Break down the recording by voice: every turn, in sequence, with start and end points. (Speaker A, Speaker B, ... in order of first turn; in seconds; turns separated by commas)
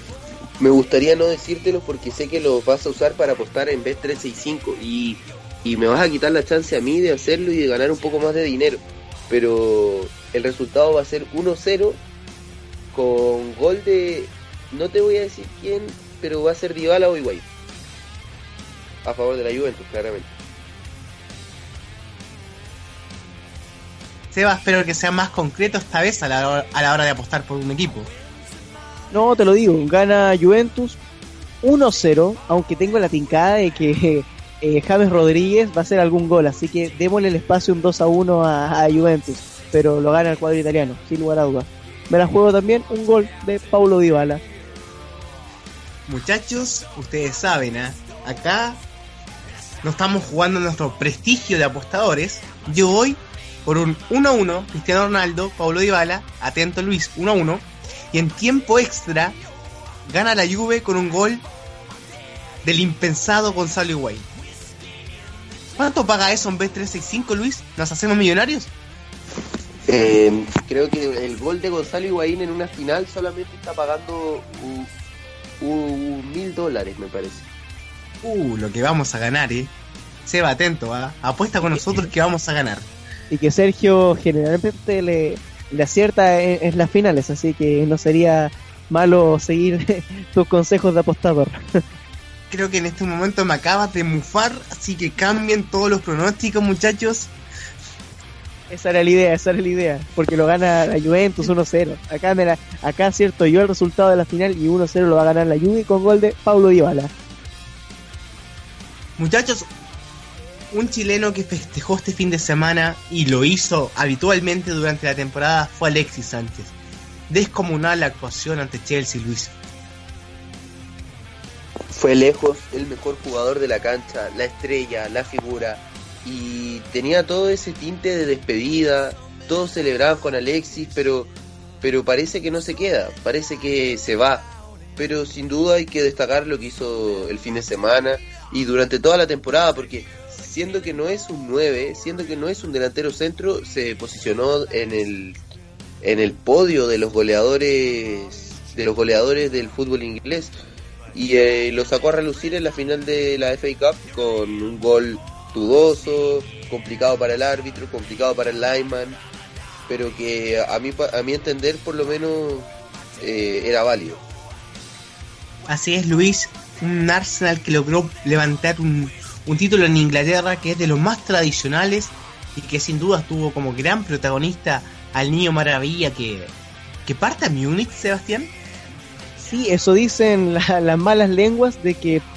Speaker A: 0.6-12.0, Speaker A: 12.9-17.4, Speaker A: 19.0-20.3, Speaker B: 24.3-28.1, Speaker C: 29.1-31.0, Speaker C: 31.6-44.4, Speaker B: 46.1-48.8, Speaker B: 49.8-59.4, Speaker B: 60.0-61.5, Speaker B: 62.6-64.3, Speaker B: 65.8-68.7, Speaker A: 69.9-74.9, Speaker A: 75.6-77.5, Speaker B: 78.2-79.7, Speaker B: 80.2-82.9, Speaker C: 83.3-91.8, Speaker B: 92.5-97.3, Speaker C: 98.7-107.1, Speaker B: 109.2-109.7, Speaker B: 110.7-116.7, Speaker B: 117.3-119.5, Speaker A: 121.9-145.4, Speaker A: 146.0-150.5, Speaker A: 151.1-159.2, Speaker A: 159.9-164.2, Speaker B: 165.7-176.5, Speaker B: 177.1-178.5, Speaker C: 179.4-182.2